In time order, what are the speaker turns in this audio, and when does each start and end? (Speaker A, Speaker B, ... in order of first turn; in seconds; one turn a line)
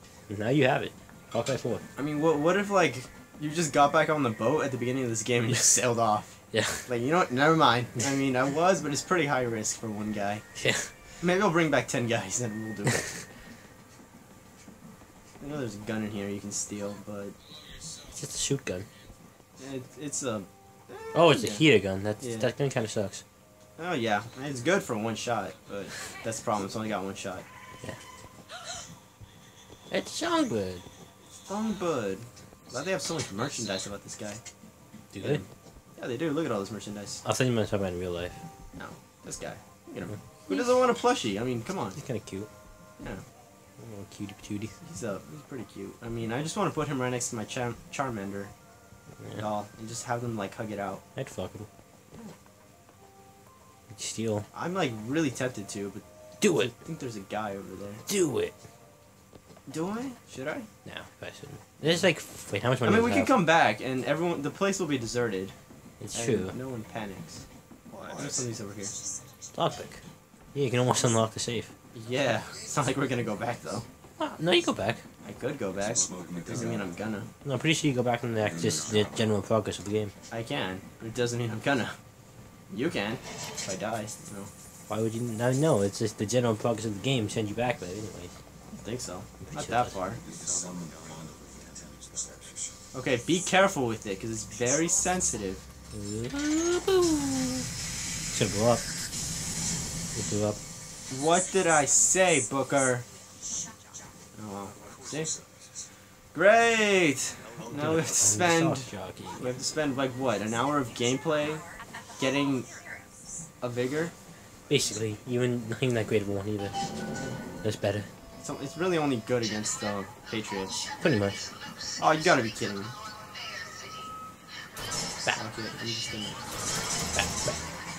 Speaker A: 0.3-1.8
Speaker B: 1.9-10.4
Speaker A: 6.5-6.8
Speaker A: 10.6-10.9
Speaker B: 11.2-13.2
Speaker B: 15.4-17.3
Speaker A: 18.1-18.9
Speaker B: 19.6-21.6
Speaker A: 21.1-23.2
Speaker B: 22.2-22.5
Speaker B: 23.8-27.4
Speaker A: 29.9-30.8
Speaker B: 31.4-34.4
Speaker A: 35.1-35.4
Speaker B: 35.2-37.2
Speaker A: 37.2-38.4
Speaker B: 38.8-42.0
Speaker A: 41.9-42.5
Speaker A: 43.8-44.7
Speaker B: 44.8-48.5
Speaker B: 49.3-51.0
Speaker A: 51.1-51.7
Speaker A: 53.9-54.5
Speaker B: 54.5-58.0
Speaker A: 56.4-56.7
Speaker A: 58.1-58.5
Speaker B: 59.7-60.7
Speaker A: 60.8-63.3
Speaker B: 62.8-65.5
Speaker A: 66.0-66.5
Speaker B: 66.1-67.4
Speaker B: 68.1-68.9
Speaker A: 69.5-70.0
Speaker A: 70.5-71.7
Speaker B: 71.9-73.8
Speaker A: 74.2-75.0
Speaker B: 75.2-77.3
Speaker C: 75.7-76.9
Speaker A: 77.4-80.1
Speaker C: 78.4-79.2
Speaker B: 80.3-82.0
Speaker B: 82.7-84.5
Speaker A: 84.9-88.3
Speaker B: 88.7-90.2
Speaker A: 89.4-90.0
Speaker C: 90.2-92.8
Speaker B: 92.9-95.6
Speaker A: 95.9-97.7
Speaker A: 98.3-98.8
Speaker A: 100.1-100.6
Speaker B: 101.1-103.0
Speaker B: 104.3-105.3
Speaker B: 106.3-111.6
Speaker A: 107.6-109.5
Speaker B: 112.2-112.7
Speaker B: 113.6-114.1
Speaker A: 114.7-116.7
Speaker A: 117.6-118.1
Speaker B: 118.4-120.7
Speaker A: 121.0-121.4
Speaker B: 122.0-122.9
Speaker B: 125.3-126.4
Speaker A: 127.1-127.6